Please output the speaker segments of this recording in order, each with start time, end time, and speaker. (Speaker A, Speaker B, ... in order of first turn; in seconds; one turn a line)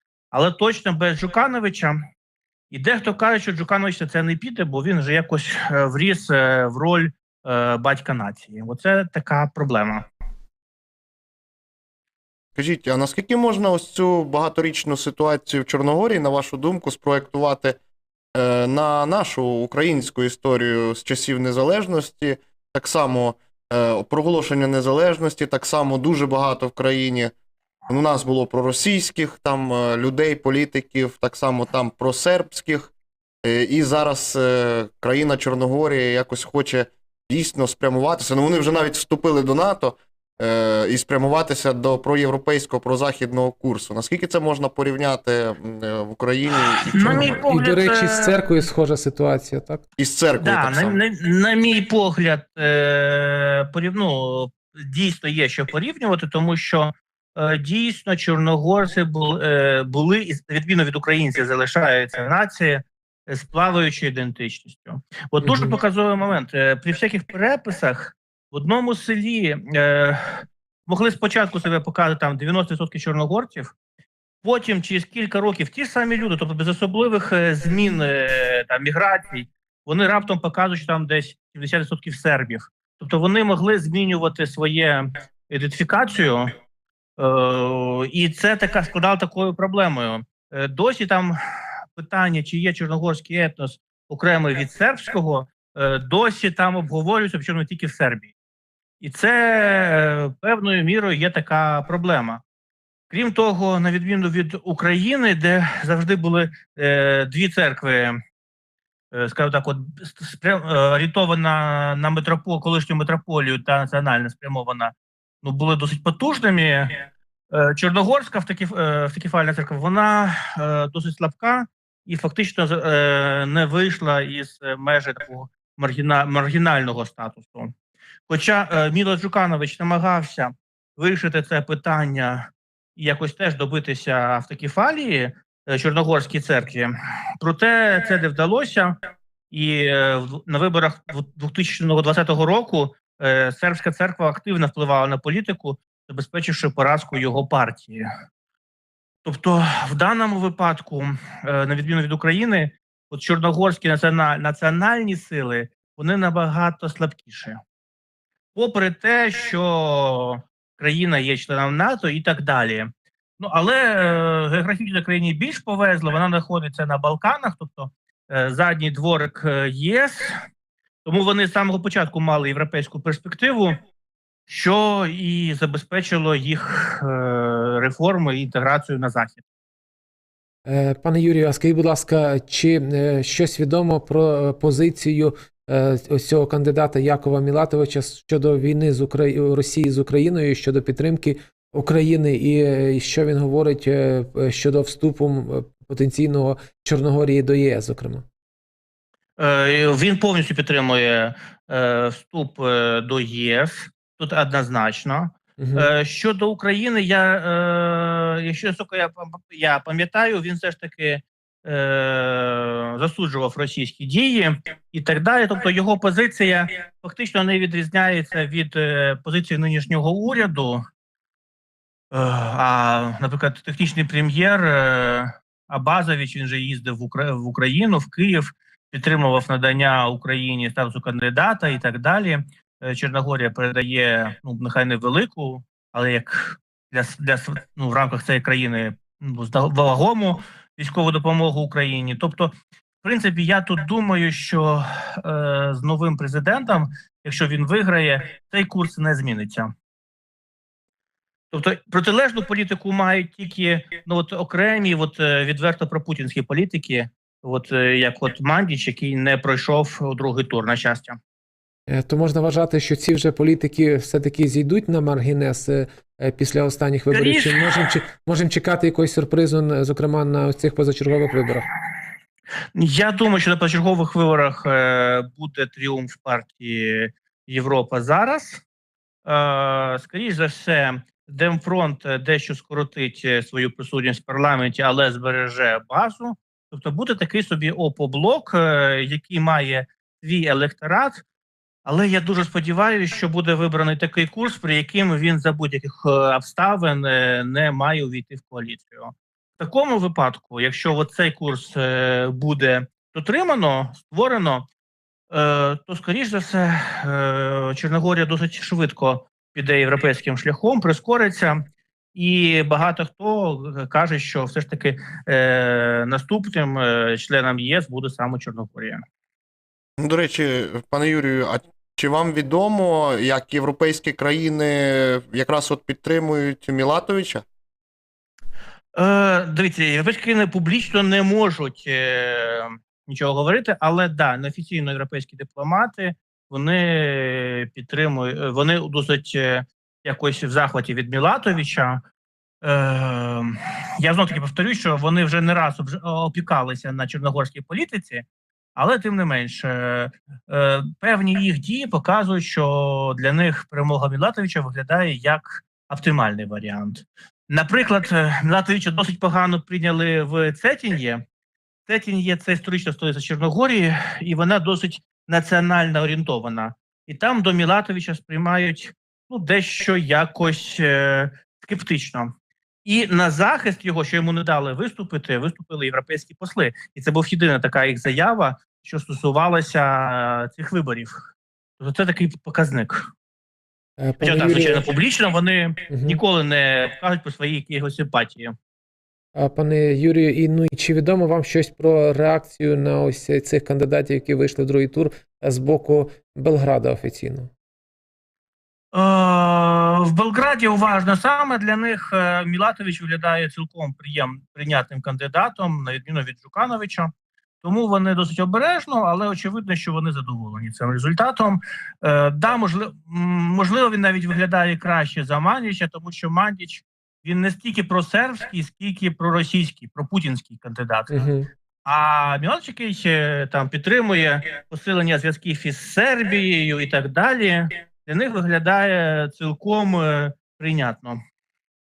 Speaker A: 0.3-2.0
Speaker A: 2.7-10.1
Speaker B: 12.6-17.8
Speaker C: 14.5-16.1
Speaker B: 18.4-27.3
Speaker B: 27.9-32.9
Speaker B: 33.4-36.9
Speaker C: 37.3-50.7
Speaker B: 44.9-46.5
Speaker A: 46.5-48.4
Speaker B: 50.0-51.0
Speaker A: 50.4-73.7
Speaker C: 65.5-65.8
Speaker A: 74.4-86.6
Speaker A: 87.2-91.3
Speaker A: 91.9-98.3
Speaker A: 99.0-102.4
Speaker A: 103.1-108.2
Speaker A: 109.1-127.7
Speaker A: 128.3-139.0
Speaker A: 139.5-148.0
Speaker A: 149.2-157.6
Speaker A: 158.5-170.4
Speaker A: 171.0-173.8
Speaker A: 174.5-179.4
Speaker C: 180.7-198.2
Speaker A: 199.4-220.8
Speaker C: 205.6-205.9
Speaker A: 222.1-242.5
Speaker A: 243.0-249.7
Speaker A: 251.5-261.2
Speaker C: 261.9-271.7
Speaker A: 267.1-267.9
Speaker A: 272.7-278.6
Speaker A: 279.2-291.2
Speaker A: 291.8-304.7
Speaker A: 305.3-319.0
Speaker B: 320.0-327.4
Speaker A: 328.9-342.0
Speaker A: 342.6-348.2
Speaker A: 348.8-361.2
Speaker A: 361.9-372.3
Speaker A: 372.8-381.2
Speaker A: 381.8-383.1
Speaker C: 384.0-384.9
Speaker A: 384.2-388.5
Speaker C: 385.9-386.2
Speaker C: 389.4-397.5
Speaker A: 398.9-407.1
Speaker A: 407.6-421.3
Speaker C: 421.1-421.5
Speaker A: 421.8-431.2